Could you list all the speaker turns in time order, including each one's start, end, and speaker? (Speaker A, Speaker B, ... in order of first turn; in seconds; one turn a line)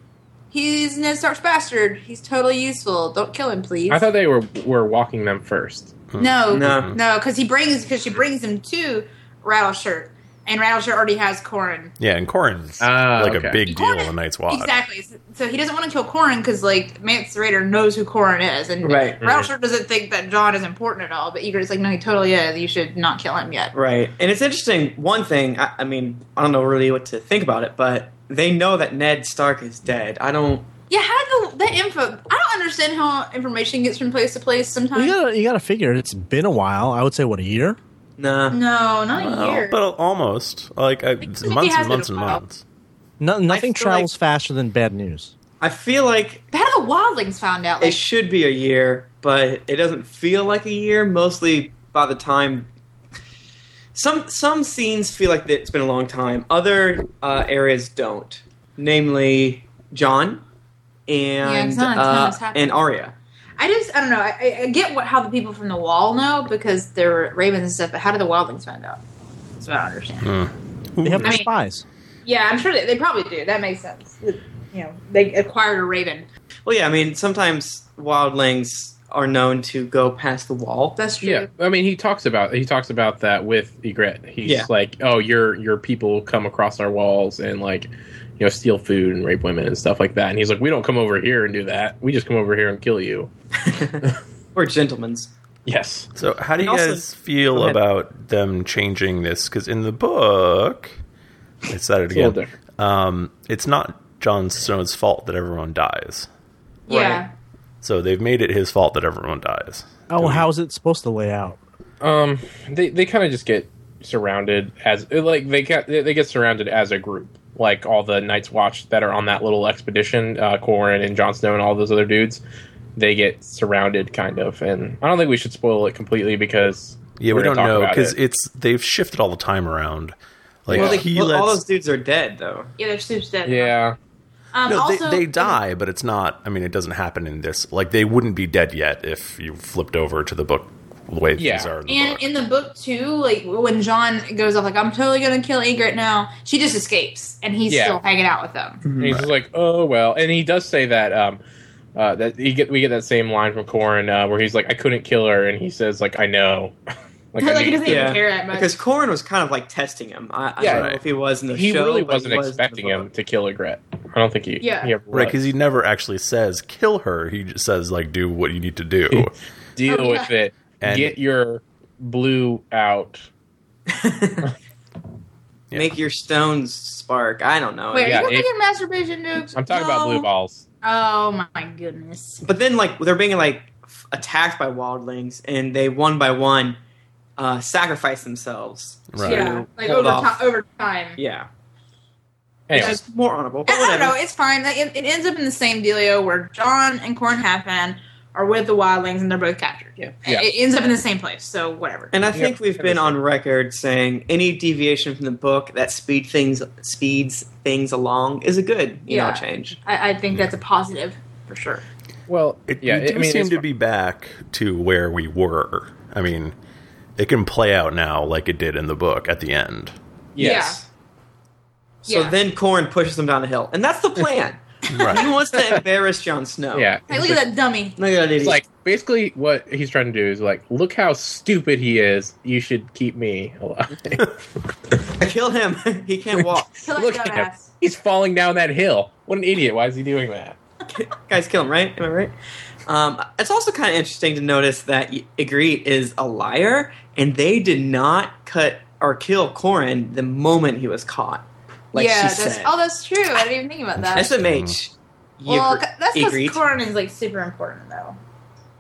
Speaker A: 0.5-4.0
Speaker B: 3.9-6.0
Speaker C: 6.1-7.0
Speaker A: 6.2-11.9
Speaker D: 6.5-6.9
Speaker C: 12.0-14.7
Speaker B: 12.8-13.6
Speaker A: 13.7-23.7
Speaker D: 18.8-19.2
Speaker B: 19.2-19.5
Speaker D: 23.7-30.7
Speaker A: 30.9-35.2
Speaker E: 35.0-37.8
Speaker D: 38.2-38.6
Speaker A: 38.5-39.8
Speaker C: 39.1-42.6
Speaker A: 41.2-42.4
Speaker E: 43.2-45.3
Speaker D: 43.5-44.1
Speaker D: 45.6-46.4
Speaker A: 46.5-48.0
Speaker D: 47.8-52.7
Speaker D: 54.0-60.4
Speaker D: 61.1-63.1
Speaker A: 61.4-62.8
Speaker A: 63.6-69.0
Speaker A: 69.6-70.3
Speaker C: 70.2-71.3
Speaker E: 71.0-71.8
Speaker A: 72.2-76.3
Speaker D: 76.7-81.0
Speaker A: 81.0-81.5
Speaker B: 81.2-93.3
Speaker D: 93.7-95.3
Speaker B: 95.7-96.1
Speaker C: 96.2-101.0
Speaker D: 96.6-97.8
Speaker C: 101.7-106.3
Speaker B: 102.1-102.6
Speaker A: 106.9-107.3
Speaker D: 106.9-107.2
Speaker C: 107.8-110.5
Speaker E: 110.1-111.6
Speaker B: 112.0-122.4
Speaker B: 123.0-128.2
Speaker C: 127.2-130.2
Speaker C: 130.7-131.6
Speaker B: 130.7-131.0
Speaker D: 130.7-132.7
Speaker A: 132.8-133.8
Speaker B: 133.5-134.0
Speaker A: 134.5-135.6
Speaker C: 134.7-142.2
Speaker B: 141.4-141.7
Speaker A: 141.9-148.8
Speaker B: 147.7-148.0
Speaker D: 148.8-149.2
Speaker B: 149.0-151.4
Speaker B: 151.9-156.8
Speaker B: 157.3-158.2
Speaker A: 157.4-158.8
Speaker D: 157.8-163.1
Speaker B: 160.6-165.4
Speaker C: 160.6-161.0
Speaker A: 164.6-164.9
Speaker C: 165.1-169.3
Speaker B: 169.1-173.3
Speaker A: 169.9-170.3
Speaker C: 170.8-171.2
Speaker D: 173.9-174.5
Speaker D: 175.8-178.3
Speaker A: 177.9-180.3
Speaker B: 178.0-178.5
Speaker B: 179.6-180.6
Speaker A: 180.8-182.4
Speaker D: 182.4-186.8
Speaker D: 187.4-190.4
Speaker C: 189.1-189.5
Speaker A: 189.2-191.2
Speaker D: 191.2-191.5
Speaker B: 192.7-193.0
Speaker D: 192.7-194.2
Speaker A: 193.7-202.2
Speaker D: 202.1-209.8
Speaker B: 202.3-203.2
Speaker A: 209.1-211.8
Speaker B: 212.3-213.6
Speaker C: 212.7-216.5
Speaker C: 217.2-219.9
Speaker B: 220.4-220.8
Speaker A: 220.4-220.8
Speaker D: 220.4-220.7
Speaker A: 222.1-222.3
Speaker D: 222.1-226.9
Speaker C: 224.9-225.2
Speaker B: 226.7-227.4
Speaker A: 227.1-228.0
Speaker D: 228.0-228.6
Speaker B: 228.4-234.4
Speaker D: 235.1-236.8
Speaker B: 236.3-240.6
Speaker A: 236.8-237.7
Speaker D: 240.9-242.3
Speaker D: 242.9-252.7
Speaker A: 251.9-254.3
Speaker C: 254.2-254.8
Speaker D: 254.2-256.6
Speaker A: 255.5-258.2